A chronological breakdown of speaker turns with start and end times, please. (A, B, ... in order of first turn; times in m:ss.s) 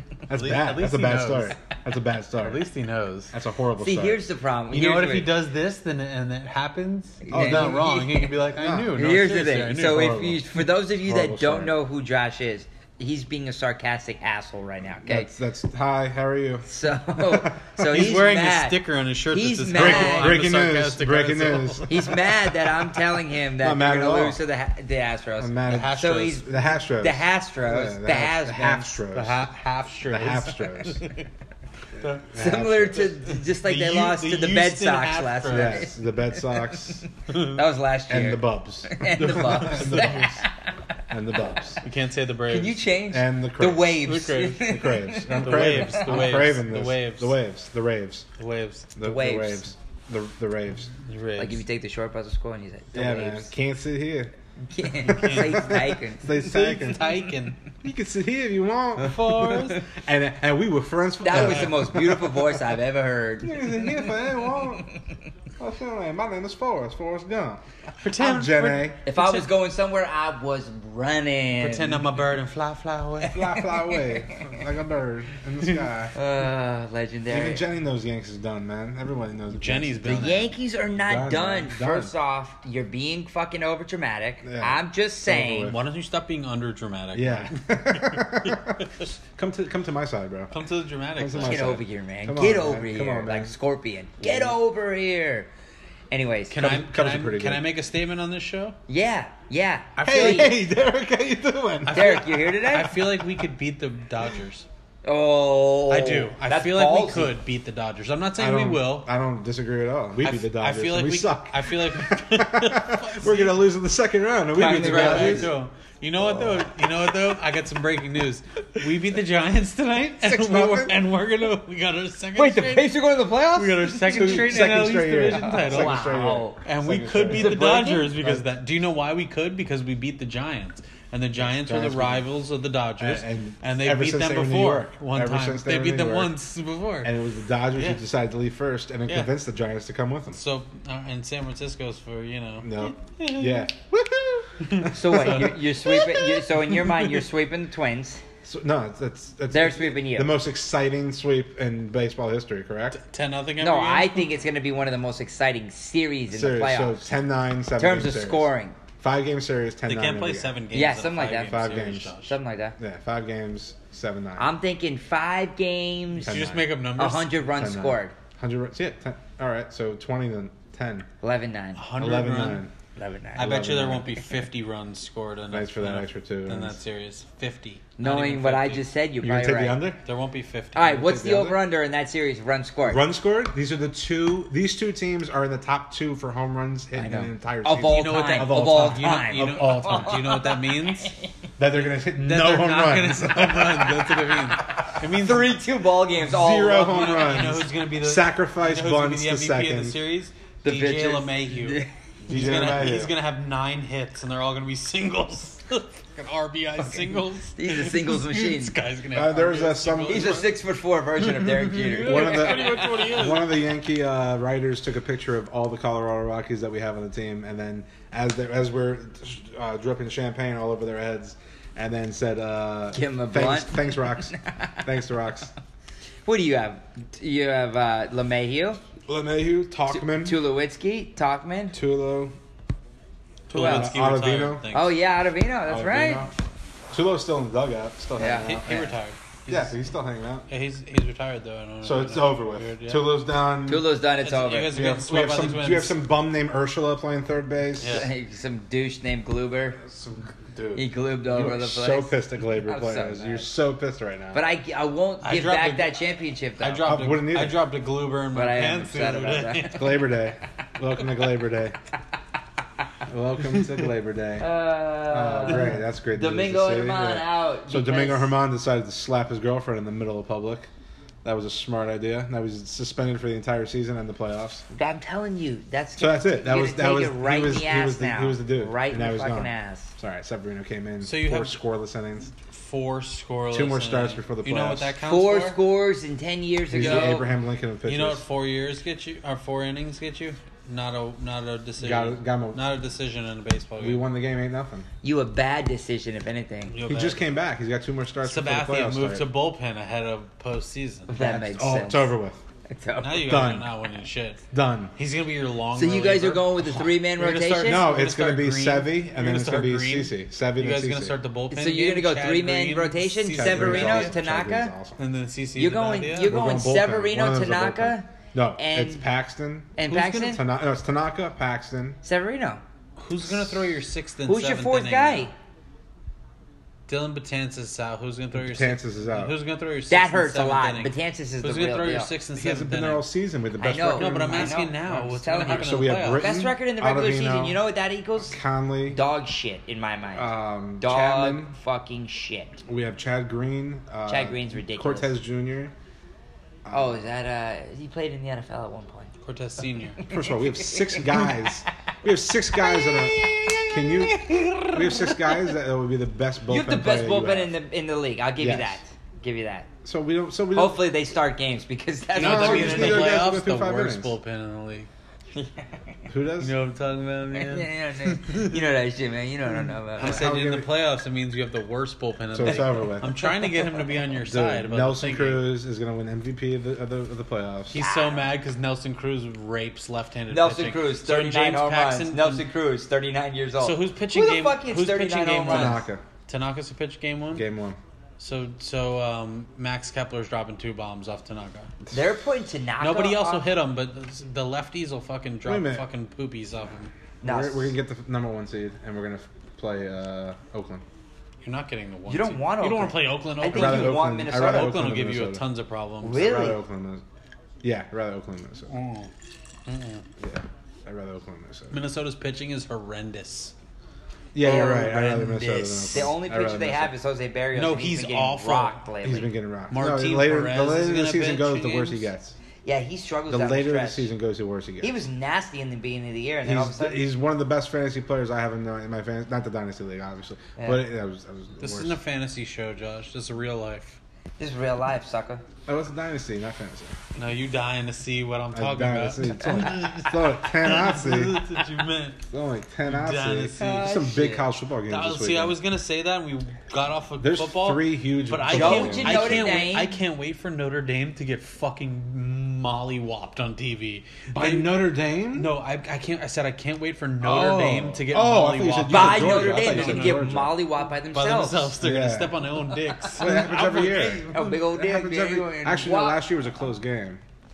0:00.3-0:02.6 A
0:00.3-0:01.6 B
0:02.4-0:03.3 B
0:03.3-0:04.2 A
0:03.8-0:05.4 C
0:04.7-0:10.3 B
0:07.2-0:08.4 C
0:07.3-0:07.8 A
0:08.6-0:09.0 A
0:08.9-0:15.3 C
0:09.8-0:10.4 A
0:11.0-0:11.8 A
0:15.0-0:17.8 A
0:16.7-0:20.4 C
0:17.8-0:22.2 B
0:19.7-0:22.7 A
0:21.9-0:29.0 C
0:23.6-0:24.4 A
0:25.4-0:29.4 A
0:25.7-0:26.4 B
0:29.1-0:31.2 B
0:30.1-0:31.0 A
0:32.0-0:33.1 A
0:32.0-0:32.3 B
0:32.4-0:40.7 C
0:33.0-0:35.9 B
0:35.5-0:37.1 A
0:37.3-0:37.6 B
0:38.1-0:40.4 A
0:39.3-0:40.4 B
0:41.1-0:41.8 A
0:41.8-0:42.8 B
0:42.5-0:46.2 C
0:43.1-0:44.1 A
0:44.0-0:44.7 B
0:44.6-0:48.3 A
0:45.3-0:47.4 B
0:48.4-0:48.9 B
0:49.0-0:50.9 A
0:49.0-0:49.6 C
0:51.1-0:51.6 B
0:51.4-0:53.5 C
0:52.9-0:54.3 A
0:54.7-0:56.3 C
0:55.0-0:55.8 B
0:55.1-0:57.2 A
0:56.3-0:57.6 B
0:57.8-1:02.4 A
0:59.0-0:59.8 B
1:01.2-1:04.6 C
1:01.3-1:01.8 B
1:03.4-1:04.9 A
1:05.6-1:07.6 A
1:08.0-1:09.5 B
1:08.2-1:09.0 A
1:09.1-1:12.1 C
1:11.6-1:13.4 B
1:13.2-1:14.6 C
1:13.3-1:16.2 A
1:16.2-1:17.7 C
1:17.3-1:22.1 A
1:19.5-1:20.5 B
1:20.0-1:25.7 C
1:24.4-1:25.8 A
1:25.6-1:29.1 B
1:27.2-1:28.8 A
1:29.4-1:30.6 A
1:30.5-1:31.8 B
1:31.2-1:33.5 A
1:31.4-1:35.5 C
1:34.2-1:34.5 A
1:36.1-1:36.6 C
1:36.5-1:38.8 B
1:36.6-1:37.7 A
1:38.9-1:40.5 C
1:40.0-1:40.6 B
1:40.0-1:42.2 A
1:41.9-1:44.7 B
1:41.9-1:43.0 C
1:45.0-1:47.4 C
1:45.9-1:49.1 B
1:48.4-1:55.6 A
1:50.2-1:53.7 B
1:54.5-1:55.5 C
1:54.6-2:03.0 B
2:00.2-2:01.0 A
2:02.4-2:06.6 C
2:03.5-2:17.1 B
2:04.1-2:07.7 A
2:07.3-2:08.3 C
2:11.4-2:12.3 A
2:13.0-2:16.3 A
2:17.0-2:20.4 A
2:17.8-2:18.0 B
2:19.1-2:19.3 B
2:20.3-2:23.7 B
2:22.6-2:25.4 A
2:24.6-2:27.2 B
2:24.9-2:28.2 C
2:28.4-2:33.0 A
2:29.5-2:30.4 C
2:33.0-2:34.3 B
2:33.6-2:37.1 C
2:36.3-2:40.6 A
2:37.8-2:38.8 C
2:39.9-2:42.4 B
2:40.7-2:41.6 C
2:41.4-2:42.1 A
2:42.3-2:42.8 C
2:42.8-2:44.5 A
2:44.4-2:46.4 C
2:46.2-2:46.7 A
2:46.3-2:47.4 B
2:47.0-2:48.1 C
2:47.5-2:51.1 A
2:51.2-2:51.8 C
2:51.8-2:52.7 B
2:52.0-2:52.7 A
2:53.0-2:53.5 C
2:53.4-2:58.8 B
2:53.4-2:54.1 A
2:55.5-2:56.8 A
2:58.0-2:59.8 C
2:59.2-3:00.0 A
3:00.0-3:01.0 B
3:00.8-3:03.0 C
3:01.0-3:01.6 A
3:02.8-3:10.2 A
3:07.0-3:11.3 C
3:07.8-3:11.1 B
3:11.6-3:14.0 A
3:12.1-3:15.6 B
3:14.0-3:17.6 C
3:16.2-3:20.0 A
3:16.9-3:30.5 B
3:20.6-3:21.9 C
3:22.2-3:23.1 A
3:27.6-3:28.8 C
3:29.1-3:30.4 A
3:30.1-3:33.1 C
3:31.3-3:33.6 B
3:32.0-3:45.5 A
3:42.9-3:44.8 C
3:46.2-3:48.8 C
3:49.1-3:50.4 A
3:49.9-3:51.8 C
3:51.7-3:52.3 A
3:53.5-3:53.9 C
3:53.5-3:55.0 B
3:53.5-3:54.7 A
3:54.7-3:56.3 C
3:55.7-3:56.3 A
3:56.9-3:59.0 A
3:58.2-3:58.5 C
3:58.4-3:59.7 B
3:59.5-4:00.5 A
4:00.5-4:03.1 B
4:01.8-4:03.9 A
4:03.7-4:04.8 C
4:04.2-4:06.0 B
4:04.7-4:08.1 A
4:07.8-4:08.1 B
4:07.8-4:09.8 C
4:09.8-4:14.4 A
4:10.8-4:13.5 C
4:14.3-4:16.9 C
4:15.2-4:16.0 B
4:16.6-4:20.0 B
4:16.8-4:17.6 A
4:18.3-4:19.9 C
4:19.7-4:21.8 A
4:23.1-4:24.5 A
4:24.4-4:28.3 C
4:25.1-4:30.7 A
4:31.2-4:34.6 A
4:34.7-4:39.9 C
4:36.0-4:42.3 A
4:41.0-4:41.6 B
4:42.5-4:45.6 B
4:43.5-4:44.9 A
4:45.0-4:47.3 C
4:46.7-4:48.2 A
4:47.8-4:54.0 B
4:51.8-4:52.6 A
4:53.8-4:54.9 A
4:55.0-4:56.8 C
4:56.7-4:57.2 B
4:56.9-4:59.3 A
4:58.2-5:01.1 B
5:01.1-5:02.1 C
5:01.2-5:02.4 A
5:02.7-5:03.4 C
5:03.0-5:04.4 B
5:03.2-5:03.7 A
5:04.5-5:05.0 A
5:05.0-5:14.2 B
5:05.8-5:07.9 C
5:07.6-5:11.2 A
5:11.5-5:14.7 C
5:13.3-5:15.0 A
5:15.0-5:16.3 B
5:15.6-5:19.0 C
5:16.2-5:22.0 A
5:19.8-5:20.4 C
5:19.9-5:20.4 B
5:22.0-5:22.6 C
5:23.0-5:25.3 B
5:24.3-5:25.3 C
5:26.9-5:33.1 B
5:28.3-5:29.4 A
5:29.9-5:32.1 C
5:32.4-5:37.6 A
5:33.6-5:42.6 C
5:33.9-5:36.3 B
5:38.2-5:39.0 A
5:40.2-5:41.6 A
5:42.7-5:45.7 A
5:44.1-5:45.1 C
5:46.6-5:47.0 A
5:46.7-5:49.1 C
5:49.2-5:50.0 B
5:50.0-5:51.3 C
5:50.1-5:57.6 A
5:52.6-5:55.5 C
5:56.5-5:59.7 C
5:58.4-5:58.8 A
5:59.8-6:00.9 A
6:00.5-6:03.2 C
6:02.2-6:04.9 B
6:02.2-6:04.1 A
6:05.4-6:05.8 C
6:06.1-6:06.5 A
6:06.4-6:08.6 B
6:07.3-6:10.2 C
6:10.0-6:15.5 B
6:10.0-6:10.7 A
6:12.3-6:13.2 A
6:12.5-6:13.9 C
6:14.2-6:17.8 A
6:17.7-6:22.4 B
6:17.8-6:18.3 C
6:20.3-6:25.8 C
6:23.6-6:27.4 B
6:25.5-6:26.0 A
6:27.3-6:27.8 A
6:28.2-6:31.7 B
6:31.9-6:33.5 C
6:32.8-6:36.9 B
6:35.4-6:35.9 A
6:37.2-6:37.8 C
6:37.2-6:40.8 A
6:41.4-6:46.2 B
6:42.1-6:44.8 C
6:43.5-6:45.4 A
6:46.0-6:46.6 C
6:46.1-6:47.0 A
6:47.6-6:48.7 A
6:48.7-6:49.1 B
6:49.7-6:50.0 B
6:50.2-6:51.8 A
6:51.7-6:53.5 B
6:54.3-6:56.9 A
6:54.4-6:59.3 C
6:57.5-6:58.8 B
6:59.0-7:02.4 A
6:59.7-7:02.1 B
7:02.6-7:04.1 C
7:03.3-7:05.0 A
7:04.8-7:07.0 C
7:06.4-7:12.0 A
7:10.6-7:10.8 C
7:11.6-7:14.0 B
7:14.4-7:15.4 C
7:15.7-7:17.0 A
7:17.2-7:22.2 B
7:18.5-7:21.5 A
7:22.3-7:25.6 A
7:22.8-7:23.8 B
7:23.6-7:24.5 C
7:24.9-7:40.2 B
7:27.2-7:29.5 A
7:28.5-7:30.0 C
7:34.4-7:35.5 A
7:37.2-7:40.6 A
7:38.9-7:41.7 C
7:41.1-7:44.6 B
7:41.8-7:42.4 A
7:43.2-7:47.2 A
7:44.3-7:46.3 C